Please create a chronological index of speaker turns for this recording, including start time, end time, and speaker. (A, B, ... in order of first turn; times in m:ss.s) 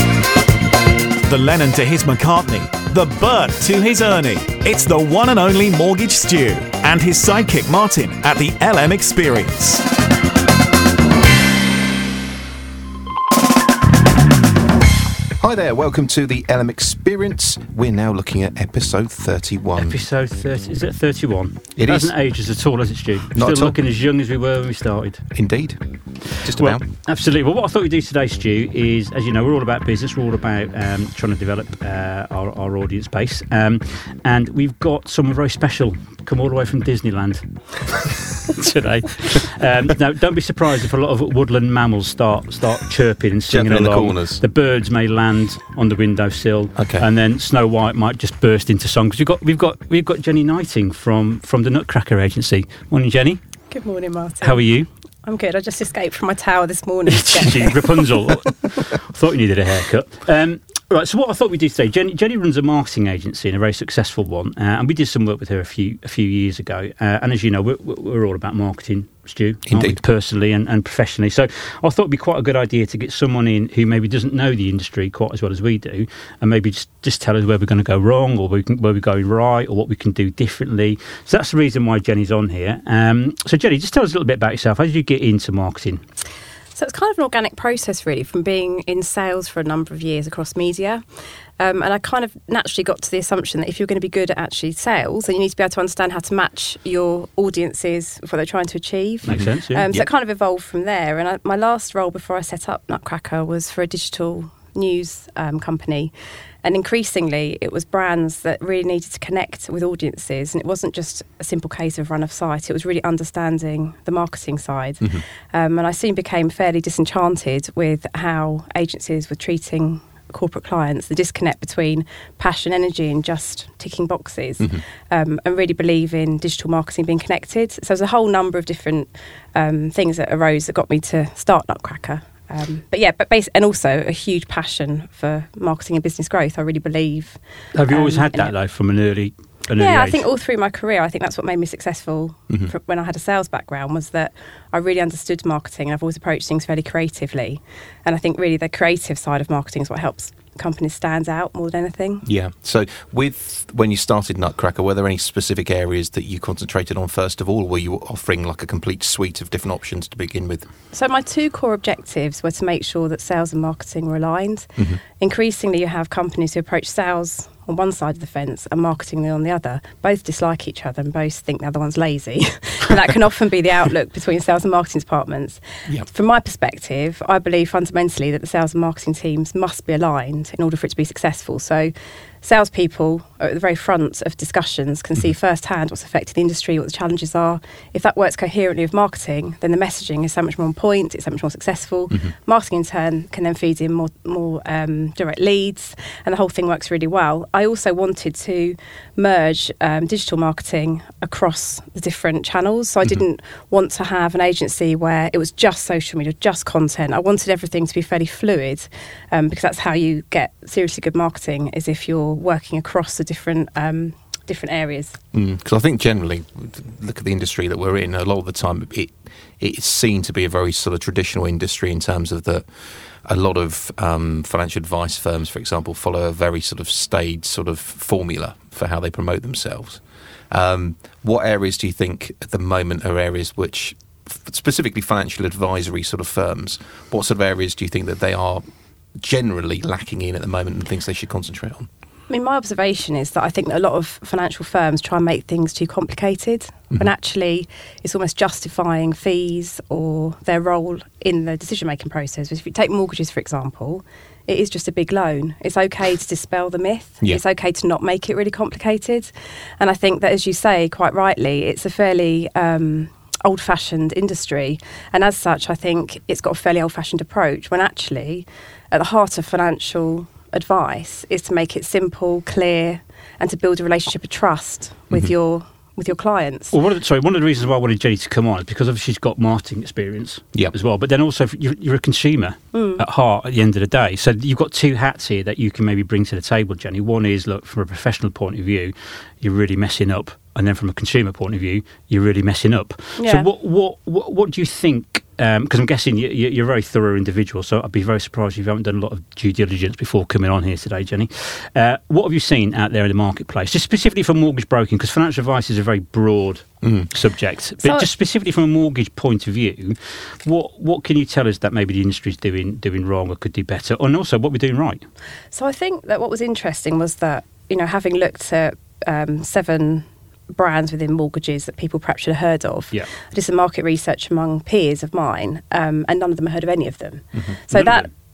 0:01.2-0:09.8 A
0:15.4-0:20.0 B
0:19.8-0:25.3 C
0:21.8-0:22.1 B
0:23.3-0:23.8 B
0:25.3-0:25.8 B
0:26.4-0:26.8 B
0:26.4-0:37.5 C
0:38.6-0:53.4 C
0:43.5-0:44.4 B
0:46.8-0:47.1 B
0:53.7-0:54.7 D
0:54.4-0:54.9 C
0:55.2-0:58.1 D
0:57.1-1:26.0 C
1:09.7-1:10.0 B
1:26.8-1:31.0 D
1:31.6-1:46.1 D
1:39.2-1:39.9 C
1:39.3-1:40.1 B
1:46.6-2:18.5 D
2:17.8-2:20.3 C
2:19.8-2:32.3 D
2:32.2-2:40.7 B
2:40.9-3:35.2 D
3:35.3-3:42.6 B
3:43.3-3:58.6 B
3:59.2-4:01.9 B
4:02.3-4:36.8 D
4:36.7-5:15.0 C
4:42.7-4:43.0 D
4:53.2-4:53.5 D
5:06.8-5:07.1 B
5:07.8-5:08.1 D
5:15.5-5:28.1 D
5:27.3-5:27.7 B
5:27.7-5:28.1 C